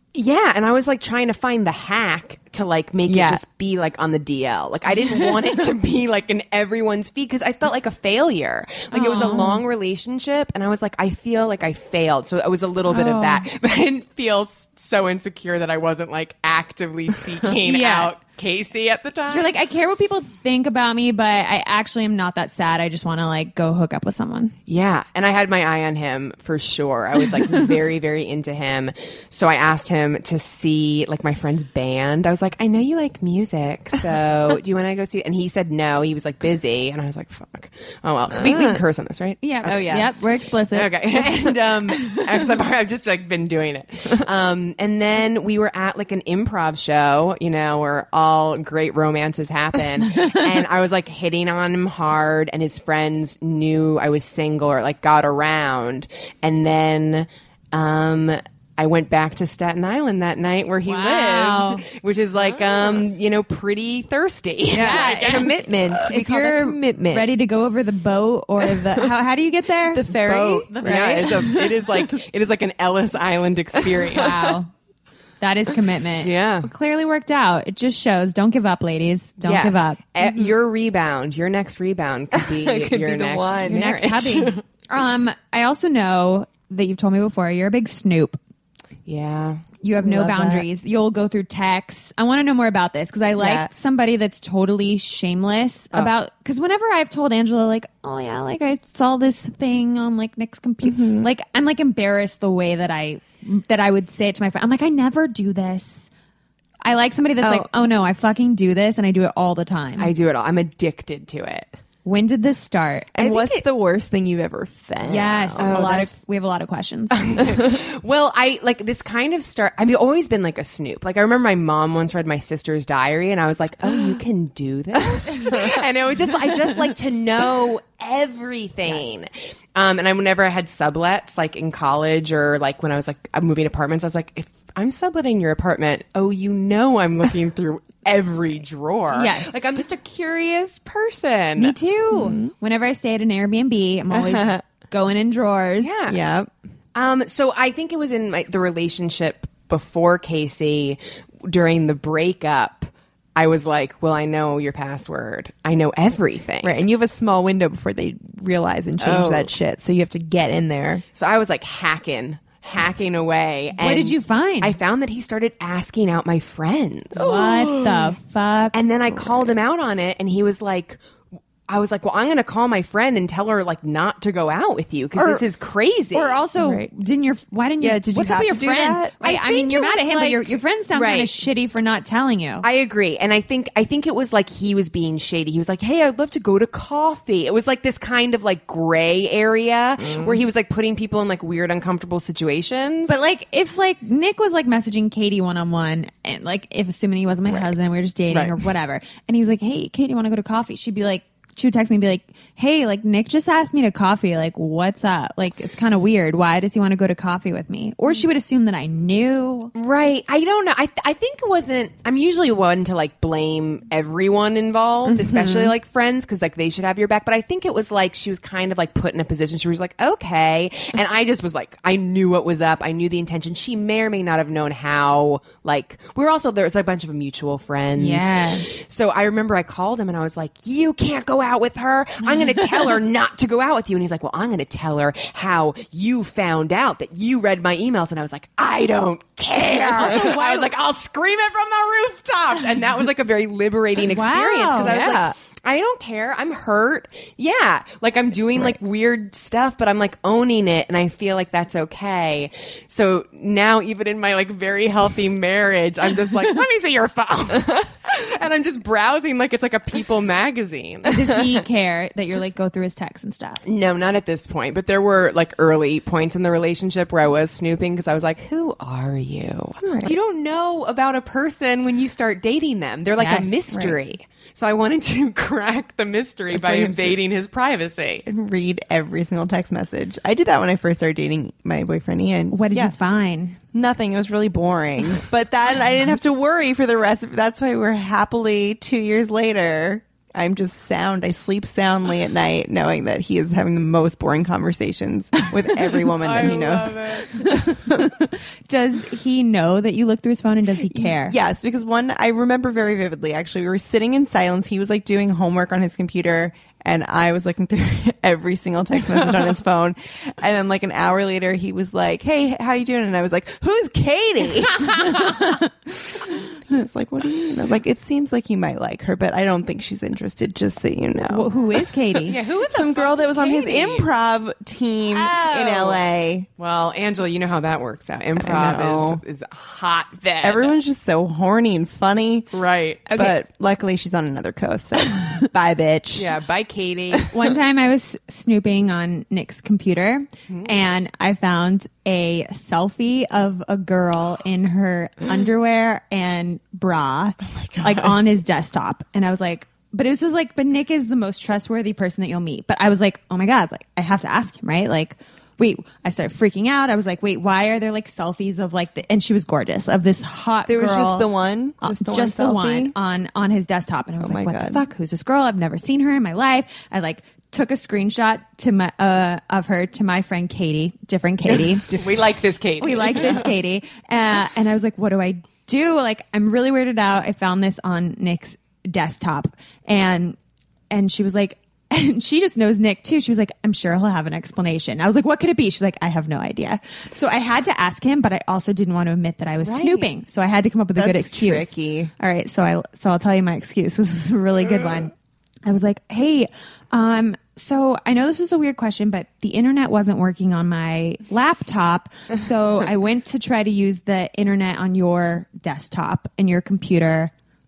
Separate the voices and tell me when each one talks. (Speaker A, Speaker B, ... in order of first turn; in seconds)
Speaker A: 0.1-19.5, 24.7-39.8, 40.7-65.9, 70.1-74.6, 76.2-76.7, 79.4-84.6, 89.1-89.6, 110.0-111.8, 113.2-113.6, 115.6-116.1, 117.1-141.8, 145.8-146.2, 146.9-156.8, 159.0-159.5, 161.2-168.0, 168.7-171.0, 171.7-176.4, 179.3-180.4, 180.9-181.4, 182.6-193.2, 198.3-198.7, 209.8-261.3, 263.6-278.3, 296.1-297.3, 322.3-324.1, 325.1-326.0, 326.6-330.8, 332.5-333.4, 336.1-337.3, 340.5-340.8, 371.6-373.5, 389.6-390.1
Speaker B: 3.1-3.4, 38.4-38.8, 39.6-40.1, 64.7-67.3, 69.9-71.6, 74.0-74.2, 80.2-80.5, 82.3-83.9, 90.0-90.7, 93.4-93.7, 100.8-101.3, 107.4-107.7, 113.2-116.1, 117.4-117.8, 125.0-125.8, 142.1-142.5, 144.1-144.6, 146.1-146.5, 156.6-161.0, 167.2-167.9, 169.2-169.5, 176.6-176.9, 177.8-180.3, 190.0-190.4, 215.1-215.8, 240.0-240.3, 244.8-245.3, 269.8-270.1, 273.7-274.0, 276.5-277.2, 278.3-282.9, 283.7-298.1, 300.9-321.5, 322.7-326.5, 328.4-329.2, 330.4-332.5, 333.1-336.3, 347.5-348.2, 360.7-362.9, 364.2-364.8, 391.0-392.1
Speaker C: 5.1-5.3, 8.9-9.6, 12.9-13.5, 17.6-18.1, 19.3-24.6, 39.4-41.1, 41.9-42.2, 60.9-61.8, 64.7-70.1, 70.7-71.8, 74.1-74.7, 75.4-80.0, 83.6-88.4, 89.8-106.1, 106.8-110.1, 112.0-113.2, 115.1-117.5, 139.1-139.6, 141.6-145.9, 163.8-164.8, 167.2-168.8, 175.2-175.4, 176.1-182.7, 193.1-209.7, 228.0-228.7, 239.9-240.7, 244.0-244.9, 261.1-263.6, 273.2-273.6, 282.5-283.6, 297.4-301.4, 321.3-322.4, 337.3-361.3, 361.8-372.1, 372.8-380.4, 380.9-395.1, 395.6-407.3